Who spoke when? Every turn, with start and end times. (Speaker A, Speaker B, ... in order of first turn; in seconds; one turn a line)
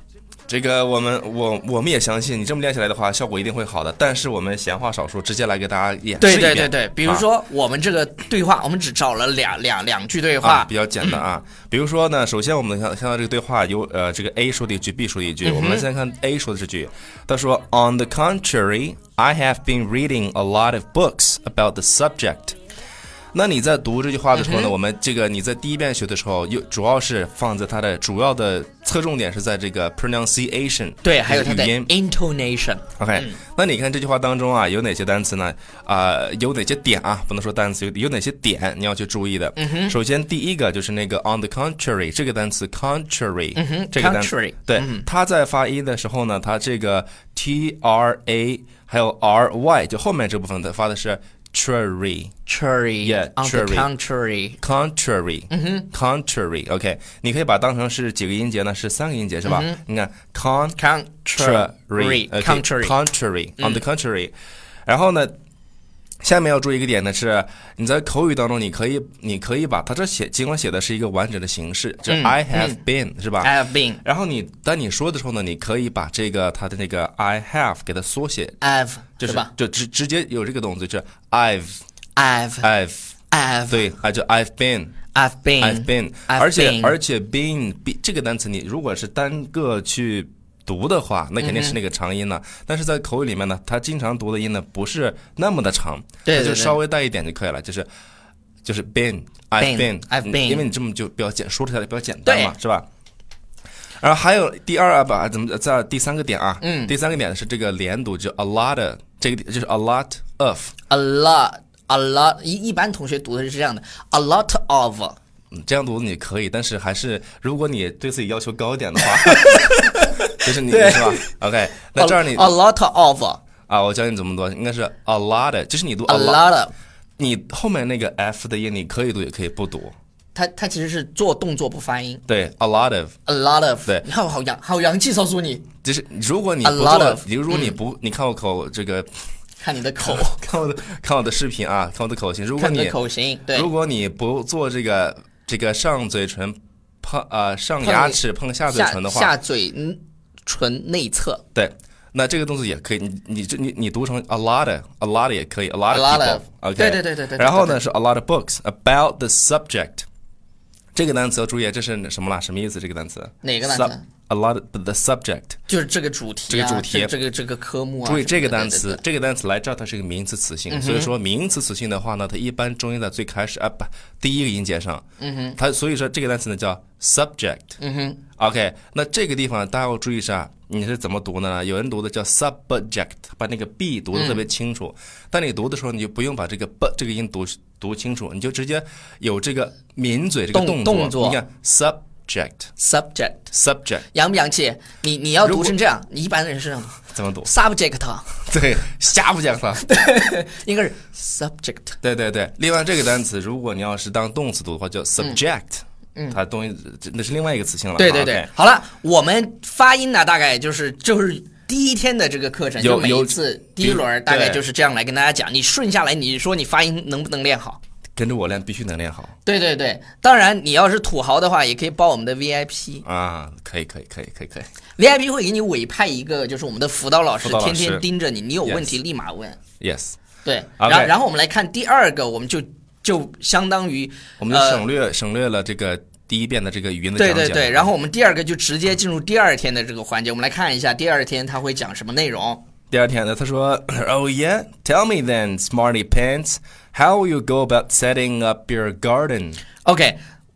Speaker A: 0.5-7.2
Speaker B: 6.2-11.2
Speaker A: 10.4-22.5
Speaker B: 15.4-15.8
Speaker A: 23.3-31.9
Speaker B: 24.3-24.7
Speaker B: 31.0-33.4
Speaker A: 33.0-52.3
Speaker B: 39.5-39.9
Speaker B: 43.5-45.0
Speaker B: 52.5-54.6
Speaker A: 53.0-53.9
Speaker A: 54.6-60.8
Speaker B: 55.5-55.9
Speaker B: 59.5-59.8
Speaker B: 60.8-62.9
Speaker A: 61.4-64.3
Speaker A: 64.9-65.3
Speaker A: 66.2-73.5
Speaker B: 72.1-72.8
Speaker B: 73.4-74.0
Speaker A: 74.0-78.5
Speaker B: 78.6-79.5
Speaker A: 79.2-81.8
Speaker B: 82.2-82.7
Speaker A: 82.6-83.1
Speaker B: 83.3-83.8
Speaker A: 83.7-85.0
Speaker B: 85.1-87.0
Speaker A: 85.6-97.9
Speaker B: 91.4-91.8
Speaker B: 96.2-96.8
Speaker A: 98.6-102.8
Speaker B: 99.6-100.7
Speaker B: 102.2-102.5
Speaker A: 104.0-110.7
Speaker B: 106.6-106.9
Speaker B: 110.9-115.2
Speaker A: 115.5-119.7
Speaker B: 119.0-121.3
Speaker A: 120.4-122.5
Speaker B: 122.0-123.4
Speaker A: 123.7-126.4
Speaker B: 126.1-126.7
Speaker A: 127.2-129.9
Speaker B: 130.3-132.2
Speaker A: 132.3-133.1
Speaker B: 133.3-135.7
Speaker A: 135.8-139.1
Speaker B: 136.6-137.8
Speaker B: 139.6-140.4
Speaker A: 140.0-142.9
Speaker B: 142.6-143.7
Speaker A: 143.5-149.3
Speaker B: 147.8-151.4
Speaker A: 151.5-160.0
Speaker B: 155.9-157.8
Speaker A: 160.9-165.6
Speaker B: 163.4-164.0
Speaker B: 165.7-169.0
Speaker A: 166.5-167.1
Speaker A: 168.0-175.0
Speaker B: 170.7-171.1
Speaker B: 175.2-175.6
Speaker A: 175.6-177.7
Speaker B: 177.8-178.2
Speaker A: 178.4-192.7
Speaker B: 184.1-184.4
Speaker B: 190.5-191.4
Speaker B: 192.8-193.5
Speaker A: 193.5-194.0
Speaker B: 194.1-198.3
Speaker A: 195.4-195.7
Speaker A: 197.1-197.5
Speaker A: 198.5-199.8
Speaker B: 199.8-202.0
Speaker A: 202.0-208.5
Speaker B: 208.0-217.8
Speaker A: 212.8-214.6
Speaker A: 218.2-219.3
Speaker B: 219.4-223.0
Speaker A: 223.0-224.7
Speaker B: 225.0-229.6
Speaker A: 227.4-228.0
Speaker A: 228.7-228.9
Speaker A: 229.8-230.2
Speaker B: 230.4-234.8
Speaker A: 230.8-231.1
Speaker A: 234.4-237.9
Speaker B: 237.2-242.6
Speaker A: 242.9-249.6
Speaker B: 249.8-250.2